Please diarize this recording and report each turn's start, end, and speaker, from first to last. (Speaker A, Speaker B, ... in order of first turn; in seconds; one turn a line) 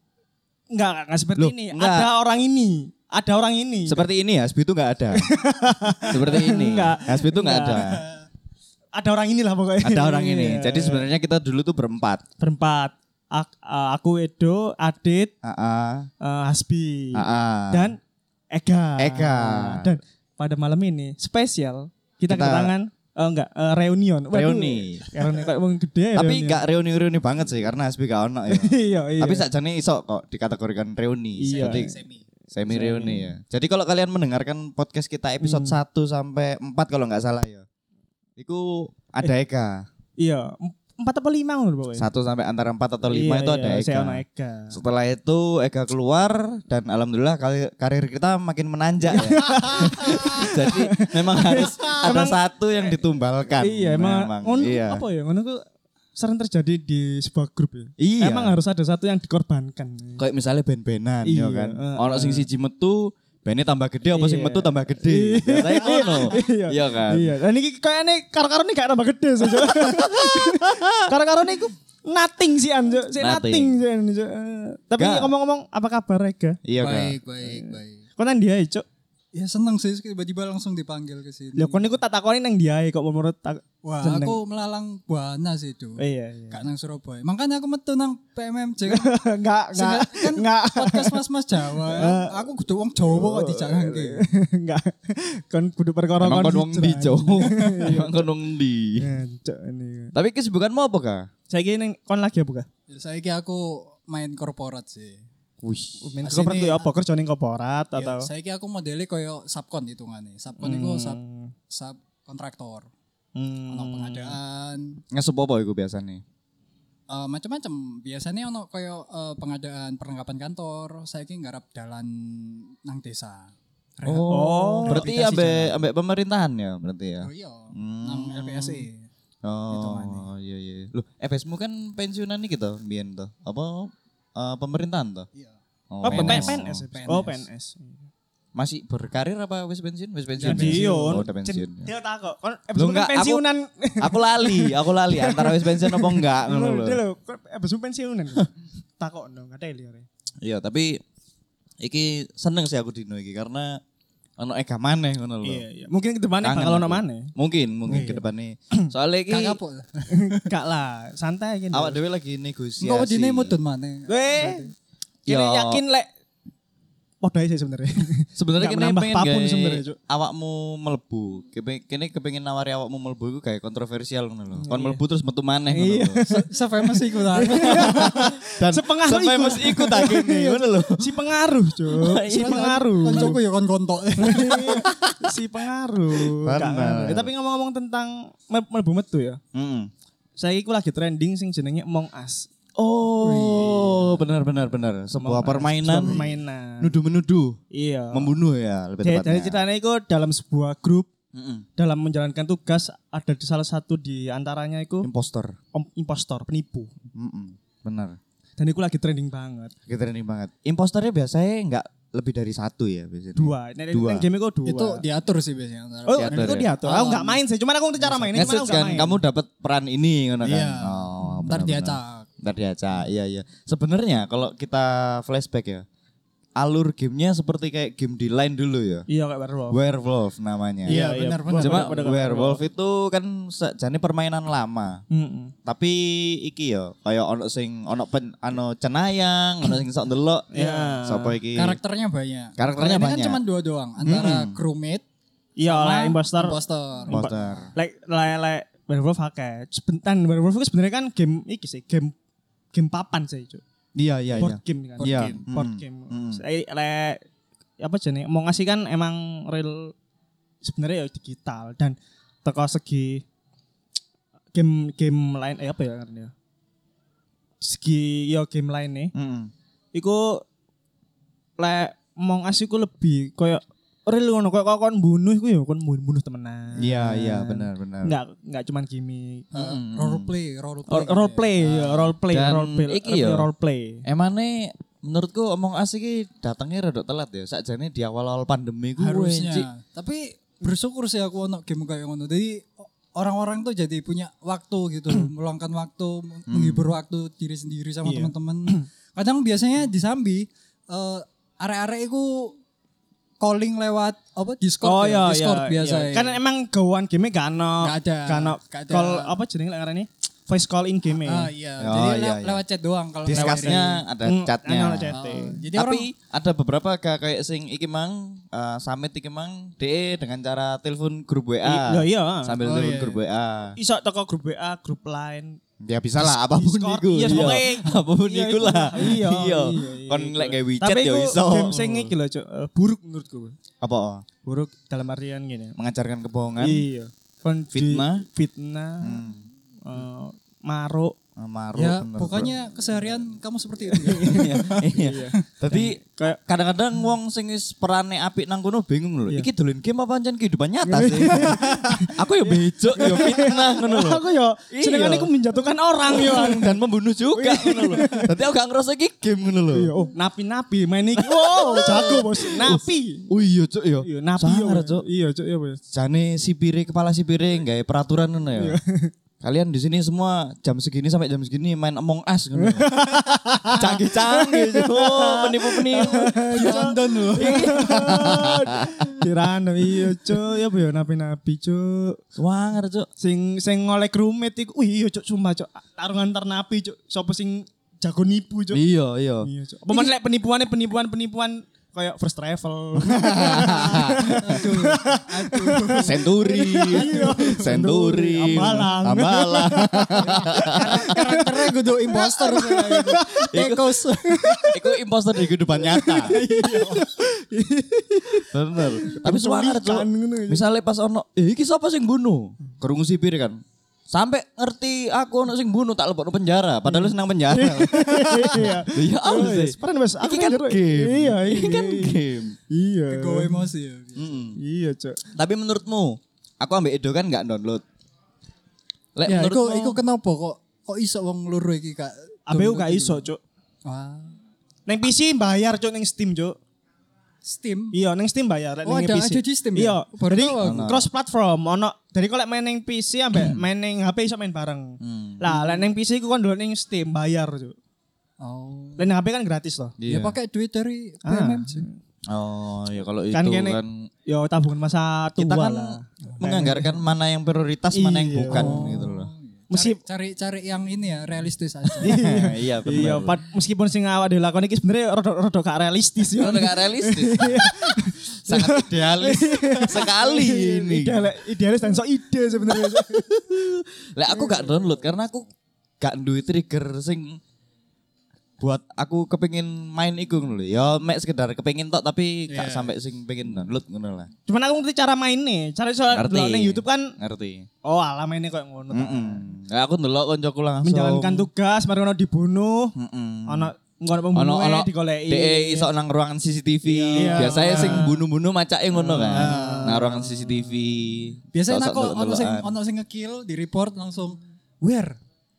Speaker A: 0.7-4.0
Speaker B: 1.4-2.1
Speaker B: 3.9-5.3
Speaker A: 5.1-7.9
Speaker B: 6.1-8.0
Speaker A: 9.0-11.0
Speaker B: 9.8-12.2
Speaker A: 12.4-15.3
Speaker B: 15.4-16.1
Speaker A: 16.2-18.0
Speaker B: 17.1-17.9
Speaker A: 18.5-26.6
Speaker B: 19.0-20.0
Speaker B: 22.3-22.7
Speaker B: 24.3-25.1
Speaker B: 26.1-31.9
Speaker A: 28.5-29.5
Speaker A: 31.4-32.0
Speaker C: 31.4-32.2
Speaker B: 32.5-37.6
Speaker A: 32.7-33.3
Speaker A: 35.4-35.8
Speaker B: 38.4-39.9
Speaker A: 40.2-42.1
Speaker B: 42.0-55.0
Speaker A: 43.1-44.8
Speaker A: 49.1-52.4
Speaker A: 53.6-55.6
Speaker A: 56.2-60.2
Speaker B: 58.0-58.6
Speaker B: 60.2-67.3
Speaker A: 61.2-62.5
Speaker A: 64.1-76.6
Speaker B: 69.7-71.1
Speaker B: 73.2-73.8
Speaker B: 75.0-75.3
Speaker B: 76.7-77.2
Speaker C: 76.8-78.0
Speaker A: 77.4-78.8
Speaker C: 79.3-81.9
Speaker A: 81.6-84.4
Speaker C: 83.8-89.1
Speaker A: 86.0-86.6
Speaker A: 88.9-91.2
Speaker C: 89.7-94.2
Speaker A: 91.7-92.4
Speaker A: 93.1-98.2
Speaker B: 96.2-99.1
Speaker C: 97.6-97.9
Speaker A: 99.0-100.1
Speaker B: 100.1-101.3
Speaker A: 101.5-102.7
Speaker C: 102.9-105.2
Speaker B: 105.6-106.7
Speaker A: 106.0-108.3
Speaker C: 106.2-106.9
Speaker C: 108.0-112.9
Speaker A: 110.6-111.5
Speaker A: 113.4-114.4
Speaker C: 113.7-115.0
Speaker B: 115.1-116.2
Speaker C: 117.1-125.8
Speaker B: 124.1-128.7
Speaker A: 124.3-125.1
Speaker C: 127.2-129.1
Speaker B: 129.4-135.3
Speaker C: 129.7-130.3
Speaker B: 135.9-136.8
Speaker A: 136.0-138.1
Speaker C: 136.1-137.5
Speaker B: 138.6-141.9
Speaker C: 140.4-141.2
Speaker A: 140.4-150.1
Speaker B: 142.8-143.4
Speaker B: 144.0-147.0
Speaker B: 150.4-151.0
Speaker B: 151.8-153.8
Speaker B: 154.4-155.7
Speaker A: 155.4-157.3
Speaker B: 156.4-159.6
Speaker C: 157.9-158.2
Speaker C: 159.3-160.5
Speaker A: 160.1-162.0
Speaker B: 161.7-163.5
Speaker C: 162.8-164.7
Speaker A: 164.1-164.7
Speaker B: 165.3-165.8
Speaker A: 165.3-166.1
Speaker A: 167.2-170.0
Speaker B: 168.4-176.2
Speaker A: 174.6-175.0
Speaker A: 175.7-176.4
Speaker C: 176.3-178.2
Speaker A: 177.3-183.4
Speaker B: 177.5-181.3
Speaker B: 181.8-183.4
Speaker C: 182.2-184.8
Speaker A: 184.2-189.4
Speaker B: 184.8-185.3
Speaker B: 186.1-187.3
Speaker B: 189.5-189.9
Speaker A: 190.4-192.5
Speaker B: 192.8-197.6
Speaker C: 193.2-194.1
Speaker A: 193.4-193.8
Speaker A: 195.2-196.9
Speaker A: 197.7-198.4
Speaker B: 198.1-199.6
Speaker A: 199.0-201.1
Speaker B: 201.3-201.7
Speaker A: 201.8-205.1
Speaker B: 205.0-205.6
Speaker A: 205.7-206.9
Speaker B: 207.1-208.2
Speaker A: 208.6-209.7
Speaker B: 209.9-214.3
Speaker A: 213.4-215.0
Speaker C: 214.7-217.4
Speaker A: 216.1-219.2
Speaker B: 216.1-216.7
Speaker C: 218.0-218.4
Speaker B: 218.3-225.8
Speaker C: 220.4-222.3
Speaker B: 226.6-229.1
Speaker A: 229.1-229.8
Speaker B: 229.7-231.1
Speaker C: 230.9-232.2
Speaker A: 230.9-232.6
Speaker B: 231.6-235.0
Speaker A: 235.1-235.5
Speaker B: 235.7-241.8
Speaker A: 240.5-241.4
Speaker C: 240.6-240.8
Speaker C: 241.5-245.0
Speaker B: 242.6-243.4
Speaker B: 244.0-244.6
Speaker A: 245.6-246.6
Speaker C: 245.6-247.5
Speaker A: 247.1-252.1
Speaker B: 247.1-247.7
Speaker A: 252.7-253.6
Speaker B: 254.0-256.4
Speaker A: 254.4-257.2
Speaker C: 255.0-255.4
Speaker A: 257.8-259.9
Speaker A: 260.6-263.2
Speaker A: 264.5-266.3
Speaker A: 267.6-269.1
Speaker B: 269.1-269.5
Speaker A: 269.9-270.4
Speaker A: 271.6-279.5
Speaker B: 276.8-278.1
Speaker B: 279.5-280.3
Speaker C: 279.5-281.5
Speaker A: 280.9-284.0
Speaker B: 281.6-283.5
Speaker B: 284.1-289.7
Speaker C: 289.0-302.6
Speaker B: 296.5-296.9
Speaker A: 298.1-298.9
Speaker C: 303.4-306.4
Speaker A: 304.8-311.5
Speaker C: 307.8-309.4
Speaker C: 311.2-314.0
Speaker B: 311.8-312.6
Speaker B: 313.2-315.2
Speaker A: 313.3-315.6
Speaker C: 315.1-316.1
Speaker B: 315.7-323.8
Speaker A: 321.6-322.6
Speaker C: 322.6-323.2
Speaker A: 323.8-325.6
Speaker B: 325.8-332.1
Speaker A: 326.2-333.6
Speaker B: 333.8-334.3
Speaker A: 334.4-335.8
Speaker B: 335.8-336.9
Speaker A: 336.6-339.2
Speaker B: 337.7-338.2
Speaker B: 339.0-339.4
Speaker A: 339.8-341.1
Speaker B: 341.4-342.5
Speaker C: 341.8-344.9
Speaker A: 343.9-346.4
Speaker B: 344.2-354.2
Speaker A: 350.8-356.8
Speaker B: 354.7-355.3
Speaker B: 356.1-359.9
Speaker A: 357.3-358.3
Speaker A: 359.7-363.3
Speaker B: 361.2-365.0
Speaker A: 364.1-365.8
Speaker B: 365.9-368.8
Speaker A: 368.6-369.1
Speaker B: 369.4-372.9
Speaker A: 372.6-382.2
Speaker B: 373.7-379.3
Speaker C: 376.4-378.1
Speaker B: 380.1-380.4
Speaker B: 382.4-383.1
Speaker A: 383.2-388.8
Speaker B: 388.7-389.5
Speaker A: 389.4-403.4
Speaker B: 393.0-394.6
Speaker C: 393.7-397.6
Speaker B: 395.9-401.0
Speaker C: 398.6-398.9
Speaker C: 400.2-404.8
Speaker B: 403.5-403.9
Speaker A: 404.2-404.9
Speaker B: 404.7-406.4
Speaker A: 405.9-410.6
Speaker C: 406.0-407.2
Speaker B: 408.5-422.6
Speaker A: 417.5-423.6
Speaker C: 423.1-424.4
Speaker B: 424.2-424.6
Speaker A: 424.6-425.2
Speaker B: 425.3-427.8
Speaker B: 429.2-430.0
Speaker C: 429.3-433.3
Speaker A: 432.5-433.4
Speaker C: 433.9-434.3
Speaker A: 434.9-436.6
Speaker C: 437.4-438.0
Speaker A: 437.9-447.8
Speaker C: 438.9-440.9
Speaker B: 440.6-441.1
Speaker B: 443.3-443.6
Speaker B: 445.0-445.4
Speaker C: 445.5-445.9
Speaker C: 448.4-449.1
Speaker A: 449.0-450.0
Speaker B: 450.0-450.4
Speaker C: 450.1-451.9
Speaker A: 451.3-452.0
Speaker B: 452.3-454.1
Speaker A: 453.3-456.9
Speaker B: 455.4-459.3
Speaker C: 456.3-456.9
Speaker A: 457.9-458.9
Speaker C: 458.5-462.2
Speaker A: 459.7-460.0
Speaker A: 462.0-473.3
Speaker B: 462.0-463.4
Speaker B: 466.4-471.4
Speaker B: 472.7-475.5
Speaker C: 474.3-474.7
Speaker B: 476.0-477.4
Speaker B: 478.6-484.3
Speaker C: 482.5-482.9
Speaker A: 484.5-487.1
Speaker B: 486.1-487.7
Speaker A: 487.8-489.4
Speaker B: 488.9-491.5
Speaker A: 490.8-492.9
Speaker B: 492.9-493.7
Speaker A: 493.5-495.9
Speaker B: 494.3-502.7
Speaker C: 496.9-498.2
Speaker A: 497.1-498.2
Speaker A: 498.9-500.2
Speaker C: 499.3-500.1
Speaker C: 501.5-505.2